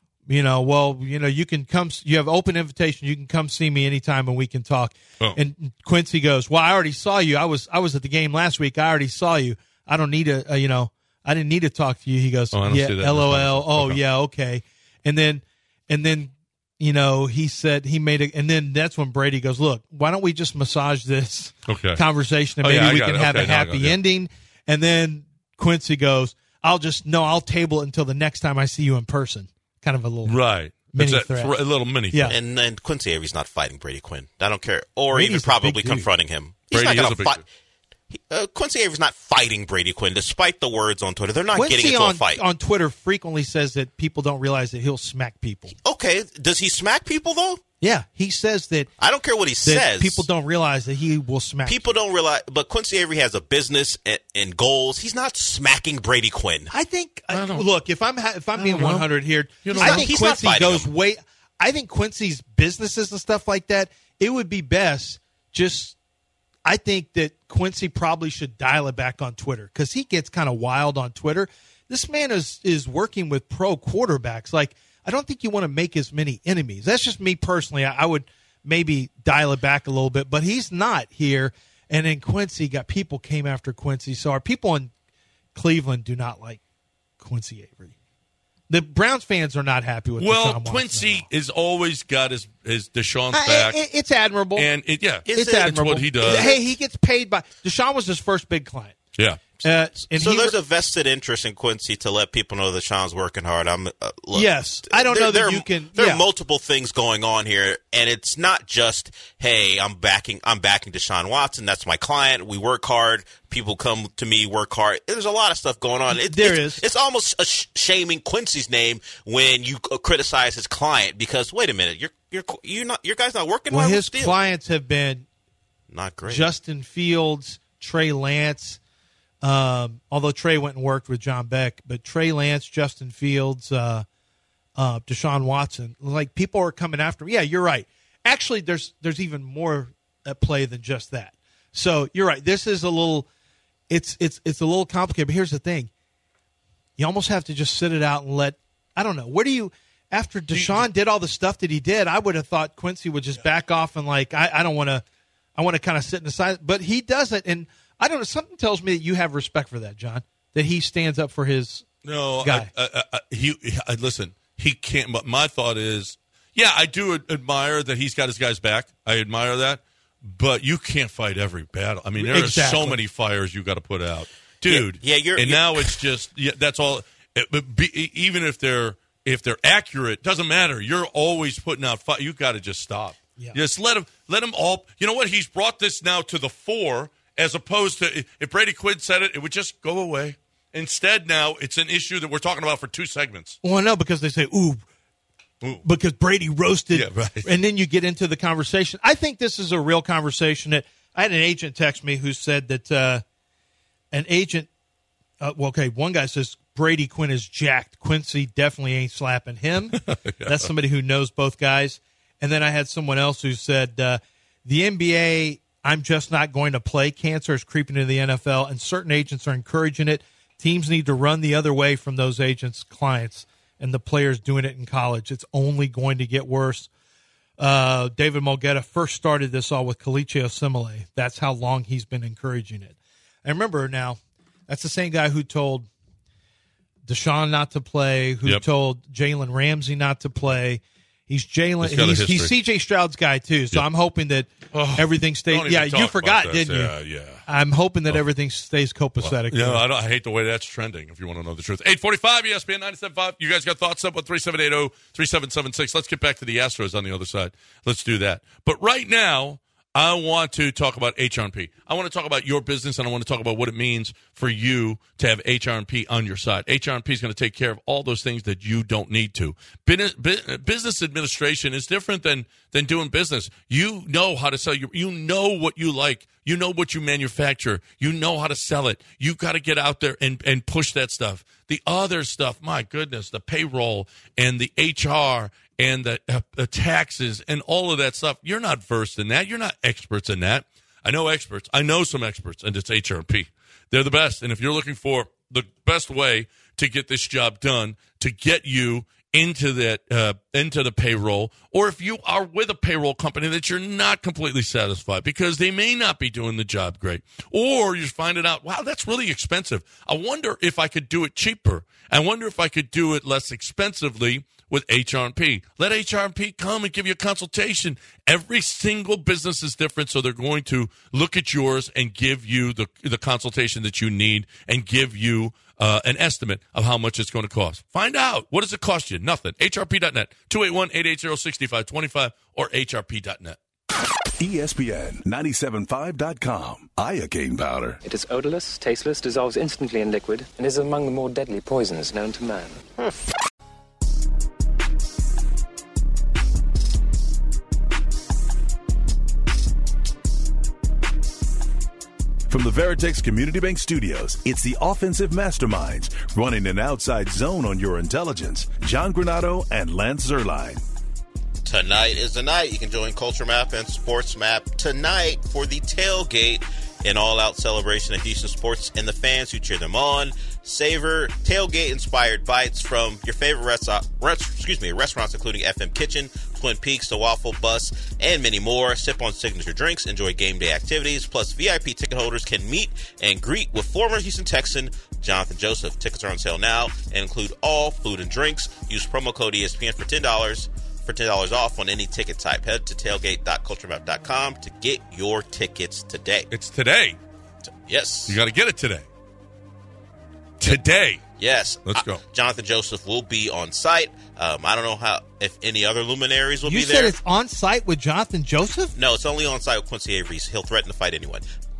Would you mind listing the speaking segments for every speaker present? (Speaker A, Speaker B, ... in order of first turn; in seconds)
Speaker A: 0.3-30.4, 30.9-31.5, 32.1-32.4, 35.1-36.1, 41.5-45.7, 47.8-48.9, 49.6-52.0, 56.7-66.0, 66.7-84.9, 85.5-86.6, 87.2-88.0, 88.7-91.3, 93.3-94.7, 95.3-99.0, 99.6-100.6, 104.3-106.2, 116.1-116.8, 123.7-125.3, 126.3-128.8, 129.4-134.1, 134.8-143.3, 143.9-145.9, 147.0-155.0, 155.6-161.9, 162.4-162.7, 172.2-173.0, 193.6-194.8, 195.8-203.2, 204.1-204.7, 205.4-226.9, 227.6-235.9, 237.1-246.9, 247.4-249.8, 406.6-408.9
Speaker B: 12.5-14.0, 21.7-22.0, 22.6-24.0, 30.2-32.4, 36.7-37.4, 57.3-57.6, 58.6-59.1, 59.6-60.1, 90.2-93.8, 94.5-96.5, 99.2-99.4, 150.5-150.8, 162.0-193.6, 196.9-197.5, 209.9-210.7, 241.8-242.5, 244.7-247.4, 249.2-333.6, 396.5-397.2, 398.3-399.1, 400.6-401.2, 401.9-402.2
Speaker C: 32.3-37.4, 38.1-42.4, 45.8-47.6, 49.0-50.3, 51.7-56.7, 59.8-60.9, 95.3-96.6, 100.1-124.4, 125.9-126.5, 174.7-176.0, 361.6-396.5, 397.7-398.4, 401.4-407.2, 408.9-411.4
Speaker D: 334.4-338.0, 352.5-360.8
Speaker E: 338.0-342.9